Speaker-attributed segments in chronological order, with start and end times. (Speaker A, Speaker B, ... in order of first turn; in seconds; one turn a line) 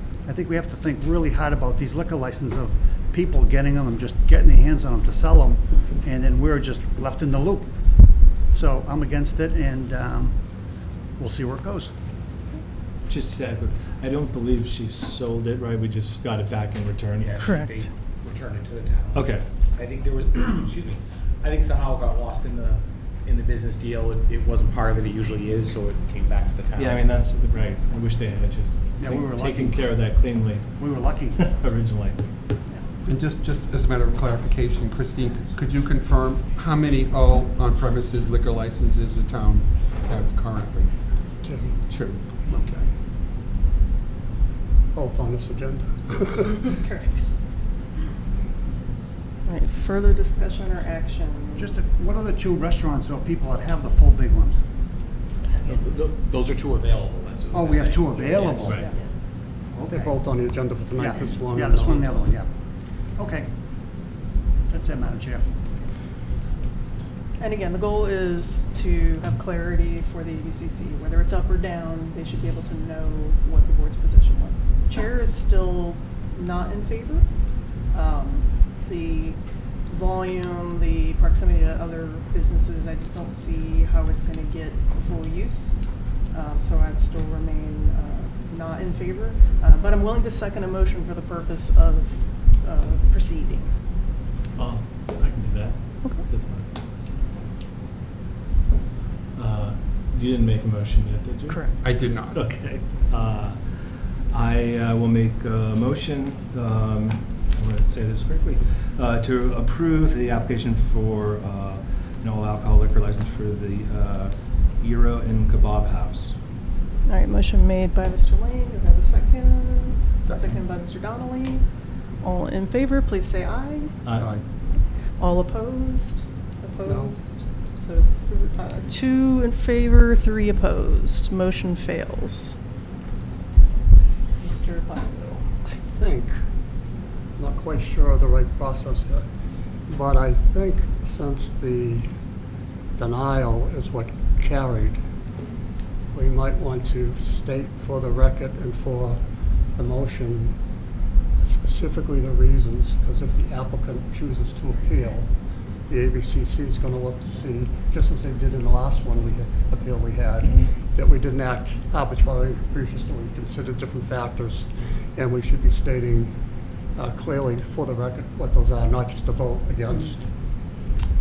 Speaker A: 0.2-7.8
Speaker A: 8.5-10.4
Speaker A: 11.2-11.9
Speaker B: 13.1-17.4
Speaker C: 17.2-27.1
Speaker D: 17.4-17.8
Speaker B: 19.1-19.4
Speaker B: 26.7-32.6
Speaker A: 29.0-29.9
Speaker A: 30.8-31.4
Speaker E: 33.0-40.9
Speaker F: 41.4-41.8
Speaker E: 41.9-42.9
Speaker F: 44.9-46.7
Speaker D: 46.7-47.2
Speaker D: 49.4-51.8
Speaker A: 51.6-54.6
Speaker C: 55.6-58.8
Speaker A: 57.5-58.8
Speaker D: 58.6-59.0
Speaker A: 59.7-60.2
Speaker F: 59.9-62.3
Speaker A: 61.0-62.5
Speaker A: 63.1-63.5
Speaker A: 64.7-65.5
Speaker D: 67.4-77.2
Speaker D: 77.9-85.8
Speaker D: 86.3-93.7
Speaker B: 94.5-96.7
Speaker D: 96.0-96.3
Speaker B: 99.3-116.3
Speaker D: 101.5-101.8
Speaker E: 101.8-102.4
Speaker D: 117.0-121.6
Speaker E: 120.2-120.5
Speaker D: 122.2-124.0
Speaker B: 124.0-124.4
Speaker E: 124.1-124.4
Speaker D: 125.2-132.6
Speaker F: 126.8-127.1
Speaker D: 134.4-135.4
Speaker F: 135.6-136.4
Speaker F: 137.4-139.2
Speaker F: 139.9-142.1
Speaker F: 143.0-145.0
Speaker F: 146.1-149.2
Speaker F: 149.7-150.6
Speaker F: 151.4-155.3
Speaker F: 155.9-166.3
Speaker F: 166.9-170.3